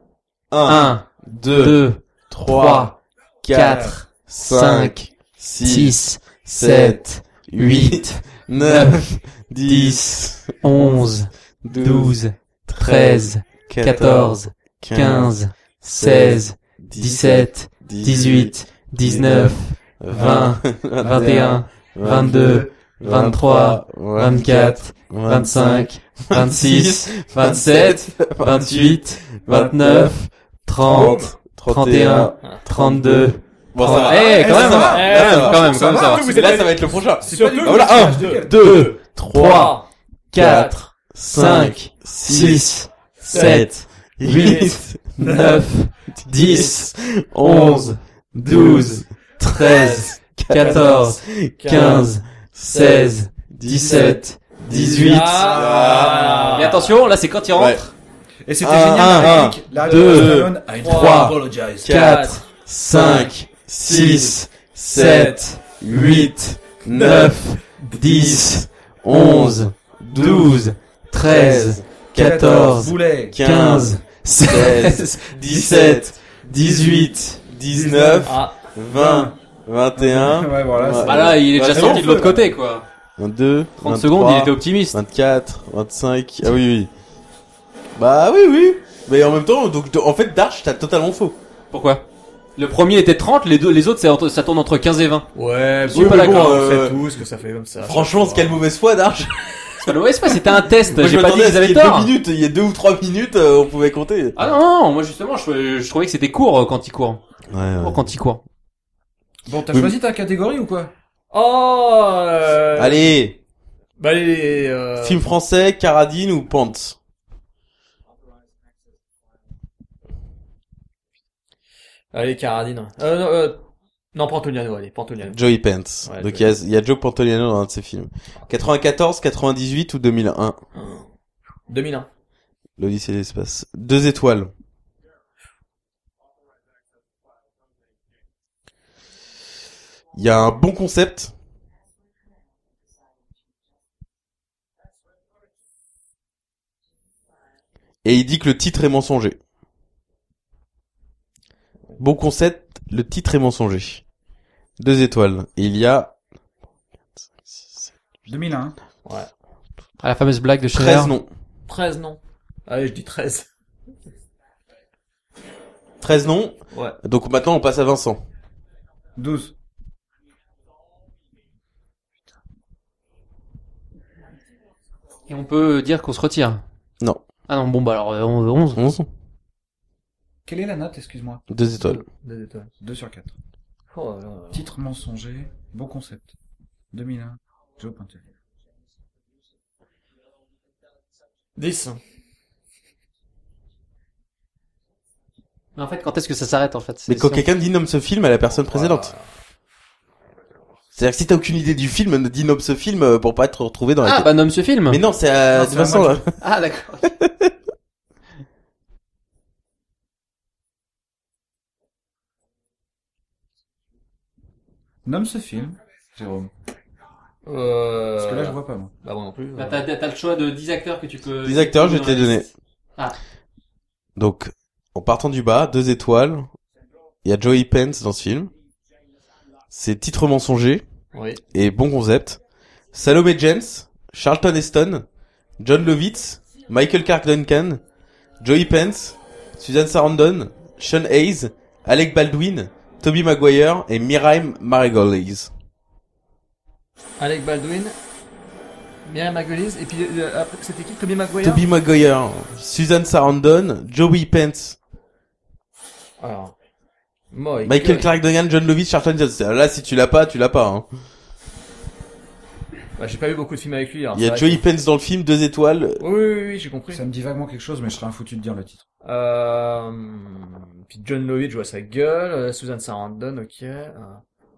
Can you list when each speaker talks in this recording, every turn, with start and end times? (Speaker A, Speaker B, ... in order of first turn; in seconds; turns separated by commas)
Speaker A: 0.5-11.0, Speaker B: 0.7-3.0, Speaker B: 3.5-5.1, Speaker C: 3.6-3.9, Speaker B: 5.6-9.1, Speaker B: 9.6-36.3, Speaker A: 11.6-30.1, Speaker C: 20.1-20.5, Speaker A: 30.8-39.7, Speaker D: 30.9-31.3, Speaker D: 33.8-40.9, Speaker C: 33.8-36.5, Speaker C: 37.2-38.6, Speaker B: 38.4-39.8, Speaker A: 40.3-42.7, Speaker B: 40.3-55.5, Speaker D: 43.2-43.6, Speaker A: 43.3-56.7, Speaker D: 44.3-44.7, Speaker D: 49.6-52.1, Speaker D: 54.7-56.9, Speaker C: 55.4-56.5, Speaker B: 56.6-57.9, Speaker A: 57.5-57.8, Speaker C: 58.4-61.9, Speaker A: 58.6-60.5, Speaker B: 59.2-63.3, Speaker D: 59.7-62.5, Speaker A: 61.8-72.7, Speaker B: 63.8-77.4, Speaker D: 64.9-65.4, Speaker D: 66.9-67.4, Speaker C: 72.2-73.4, Speaker A: 73.3-82.1, Speaker C: 77.7-78.4, Speaker D: 78.2-78.6, Speaker C: 78.9-79.3, Speaker C: 80.0-82.5, Speaker B: 80.9-82.8, Speaker A: 83.2-86.9, Speaker B: 83.8-85.0, Speaker A: 88.0-91.4, Speaker B: 91.7-92.0, Speaker B: 92.6-95.3, Speaker D: 95.3-98.6, Speaker B: 95.9-96.6, Speaker A: 95.9-97.0, Speaker A: 97.8-99.4, Speaker B: 99.8-102.1, Speaker A: 100.9-104.4, Speaker B: 104.3-107.2, Speaker A: 107.5-108.1, Speaker B: 107.8-108.4, Speaker C: 109.5-110.9, Speaker D: 111.3-113.2, Speaker A: 112.8-113.4, Speaker D: 114.0-115.2, Speaker A: 115.0-117.0, Speaker D: 122.1-125.4, Speaker A: 125.3-130.6, Speaker D: 126.0-126.5, Speaker D: 130.7-131.1, Speaker D: 131.7-132.1, Speaker A: 132.8-134.5, Speaker A: 140.2-141.3, Speaker A: 148.0-149.4, Speaker A: 152.0-154.0, Speaker A: 154.8-156.1, Speaker A: 157.3-157.9, Speaker C: 158.2-158.8, Speaker B: 160.0-161.1, Speaker A: 160.7-161.3, Speaker D: 161.7-163.5, Speaker A: 166.0-168.2, Speaker D: 166.7-167.0, Speaker C: 169.2-169.5, Speaker B: 175.3-176.6, Speaker B: 177.5-178.8, Speaker A: 178.7-179.1, Speaker C: 180.4-181.4, Speaker A: 181.5-182.0, Speaker D: 181.8-182.7, Speaker C: 182.8-183.3, Speaker D: 183.9-184.7, Speaker C: 184.5-186.3, Speaker C: 186.9-188.2, Speaker D: 191.6-192.0, Speaker B: 195.8-197.4, Speaker A: 197.1-199.1, Speaker D: 198.6-199.3, Speaker A: 200.9-204.3, Speaker B: 204.0-205.0, Speaker A: 204.9-206.3, Speaker C: 205.5-206.2, Speaker B: 206.4-207.1, Speaker A: 207.2-207.5, Speaker C: 215.1-216.5, Speaker D: 217.4-219.8, Speaker C: 218.2-218.9, Speaker B: 219.6-222.4, Speaker A: 221.4-222.5, Speaker A: 224.2-226.5, Speaker A: 227.2-228.5, Speaker A: 229.7-230.8, Speaker D: 231.1-231.4, Speaker A: 231.5-232.4, Speaker A: 232.9-235.0, Speaker A: 235.6-237.8, Speaker A: 238.4-245.5, Speaker D: 247.2-247.9, Speaker D: 249.0-251.6, Speaker A: 251.4-254.8, Speaker D: 256.2-256.5, Speaker D: 257.3-258.1, Speaker A: 257.6-260.9, Speaker D: 263.0-264.6, Speaker A: 264.1-266.0, Speaker D: 266.0-267.0, Speaker C: 266.9-268.8, Speaker D: 269.0-274.2